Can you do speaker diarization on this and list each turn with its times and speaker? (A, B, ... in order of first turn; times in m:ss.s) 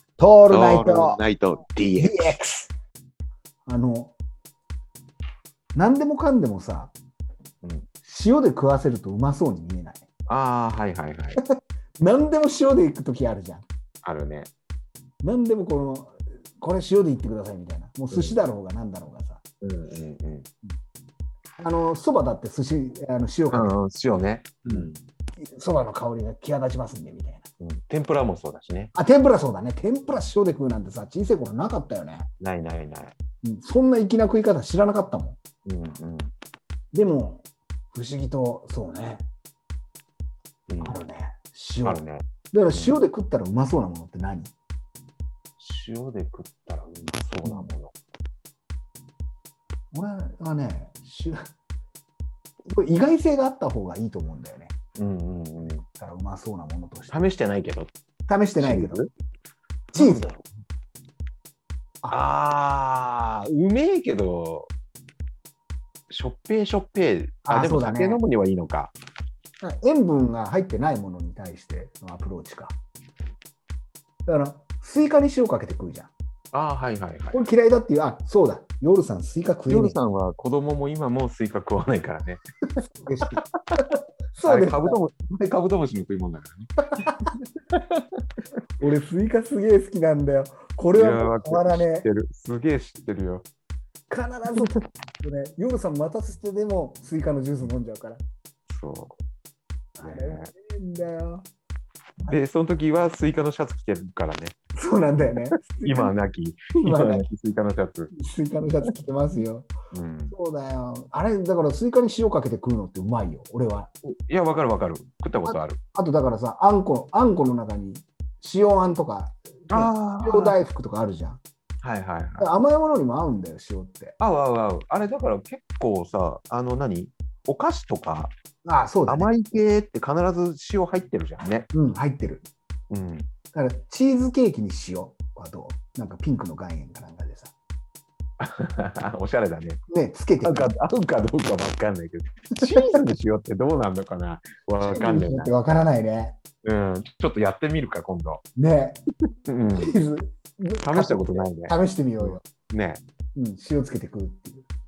0:00.2-0:01.2 A
0:00.5-0:02.4 B
0:02.0-0:02.7 A
0:03.7-0:04.1 A
0:05.8-0:06.9 A
0:07.6-0:07.9 B
0:08.0-0:10.1 A
0:10.3-0:11.4 B
0:11.4-0:13.7 A
0:14.0-0:14.5 B
0:15.2-0:19.4 A
0:18.1-0:18.4 B
0:19.6-0:20.5 B
0:21.6-0:23.8 A
0:23.5-0:25.0 B
0:24.7-0:27.4 A
0:27.6-0:28.9 B
0:28.9-0:32.3 A
0:32.4-0:33.2 B
0:33.4-0:35.4 A
0:35.7-0:36.3 B
0:36.9-0:39.3 A
0:40.7-0:41.0 B
0:40.8-0:44.5 A
0:41.8-0:43.0 B
0:45.6-0:47.9 B
0:47.4-0:47.7 A
0:49.9-0:51.5 A
0:52.7-0:54.8 A
0:55.0-0:55.8 B
0:56.0-0:57.3 A
0:57.1-0:57.9 B
0:58.3-0:59.0 A
0:58.6-0:59.1 B
0:59.9-1:00.4 B
1:00.0-1:00.3 A
1:02.1-1:04.7 B
1:06.1-1:09.0 B
1:07.5-1:08.2 A
1:09.6-1:12.8 A
1:14.3-1:16.1 A
1:16.5-1:17.4 B
1:17.3-1:20.0 A
1:19.7-1:22.4 B
1:23.0-1:25.0 A
1:23.2-1:23.8 B
1:24.5-1:27.1 B
1:27.7-1:28.2 B
1:28.8-1:32.1 A
1:31.0-1:33.5 B
1:34.1-1:38.2 A
1:38.7-1:39.2 B
1:40.0-1:41.5 A
1:40.0-1:40.5 B
1:42.3-1:44.6 B
1:44.8-1:46.1 A
1:45.5-1:48.1 B
1:46.8-1:47.3 A
1:48.1-1:49.7 A
1:49.9-1:50.3 B
1:50.3-1:53.9 A
1:54.1-1:55.8 B
1:55.5-2:01.4 A
1:59.7-2:00.6 B
2:01.8-2:02.5 B
2:02.4-2:04.2 A
2:04.2-2:08.3 B
2:08.6-2:09.3 A
2:09.1-2:11.7 B
2:11.7-2:12.5 A
2:12.9-2:13.3 B
2:13.5-2:17.5 A
2:18.4-2:19.8 B
2:19.9-2:20.8 A
2:20.4-2:25.5 B
2:24.8-2:26.4 A
2:26.6-2:28.4 B
2:28.6-2:29.0 A
2:29.5-2:30.0 B
2:29.8-2:32.4 A
2:30.8-2:33.0 B
2:33.4-2:34.7 A